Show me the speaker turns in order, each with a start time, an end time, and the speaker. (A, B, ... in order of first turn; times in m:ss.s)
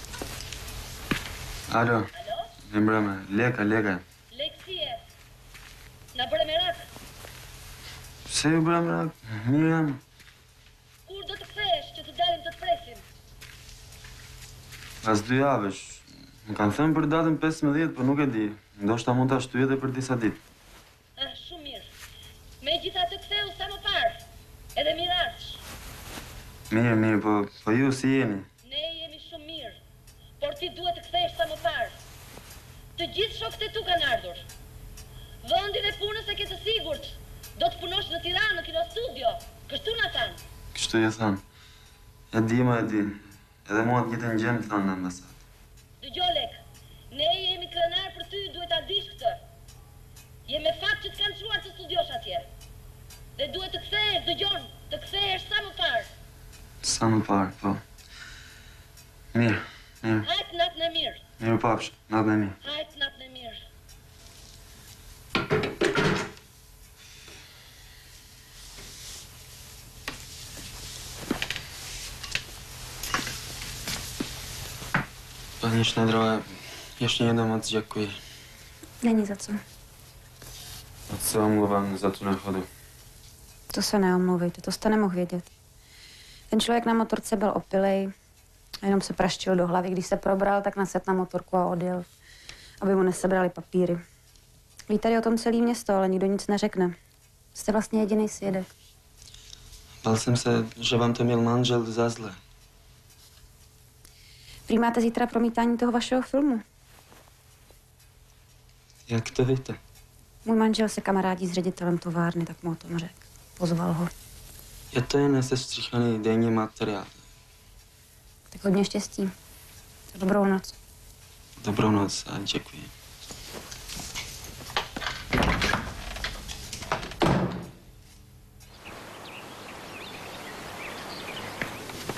0:01.7-0:02.1 A
0:02.2-0:02.5 B
0:02.7-0:04.0 A
0:04.3-0:05.0 B
0:06.1-0:06.8 B
0:08.3-0:10.0 A
0:11.1-0:13.0 B
0:15.0-0:20.4 A
0:21.2-0:21.9 B
0:22.6-0:24.2 B
0:24.8-0:25.6 B
0:26.7-0:28.5 A
0:28.6-0:29.8 B
0:30.4-0:32.0 B
0:33.0-0:34.4 B
0:35.4-0:40.4 B
0:40.7-0:41.4 A
0:42.3-0:45.3 A
0:46.0-0:46.6 B
0:47.1-0:49.4 B
0:50.5-0:52.5 B
0:53.4-0:56.1 B
0:56.8-0:57.8 A
0:59.3-1:00.3 A
1:00.2-1:01.2 B
1:01.4-1:02.6 A
1:02.6-1:03.6 B
1:15.6-1:16.5 A
1:17.0-1:18.2 A
1:19.0-1:19.6 C
1:21.1-1:22.7 A
1:23.7-1:25.4 C
1:26.5-1:28.1 C
1:28.8-1:32.1 C
1:32.8-1:34.0 C
1:34.9-1:37.0 C
1:37.5-1:38.7 C
1:40.0-1:42.4 A
1:44.7-1:46.6 C
1:49.1-1:49.8 A
1:50.4-1:54.1 C
1:54.9-1:57.1 A
1:58.5-1:59.3 C
2:00.1-2:00.7 C
2:01.6-2:02.9 A